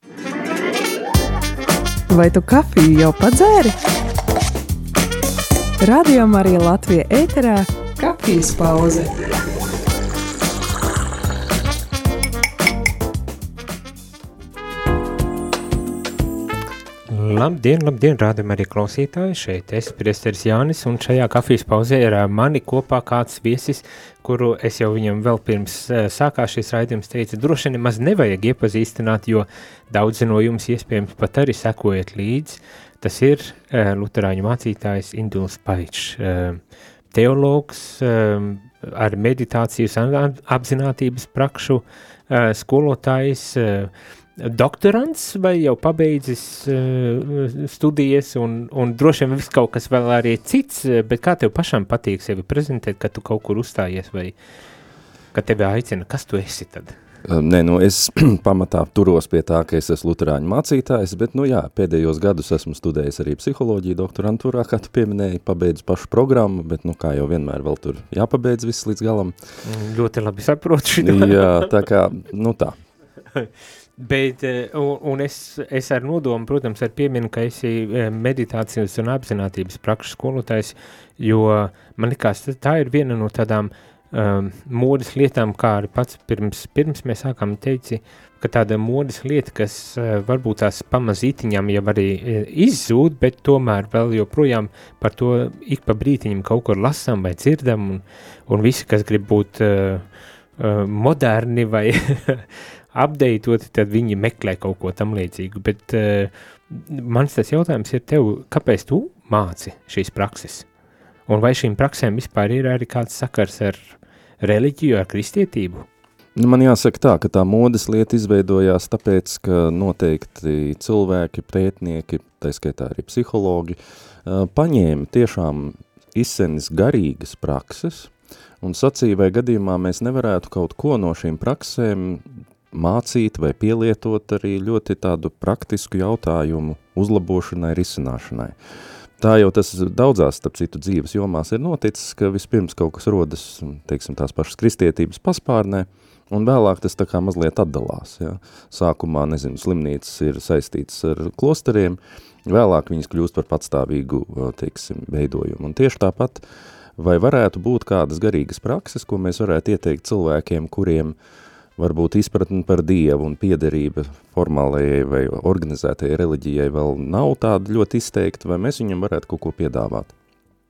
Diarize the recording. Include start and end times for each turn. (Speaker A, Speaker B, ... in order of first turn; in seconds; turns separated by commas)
Speaker A: 2.1-3.8, Speaker A: 5.8-9.3, Speaker B: 17.1-36.6, Speaker B: 37.1-54.4, Speaker B: 55.3-57.0, Speaker C: 57.2-69.4, Speaker B: 69.6-71.7, Speaker C: 71.0-72.8, Speaker B: 73.3-100.1, Speaker B: 100.6-110.7, Speaker B: 111.3-115.9, Speaker C: 116.4-138.6, Speaker C: 139.2-156.4, Speaker C: 157.0-161.2, Speaker C: 161.8-170.1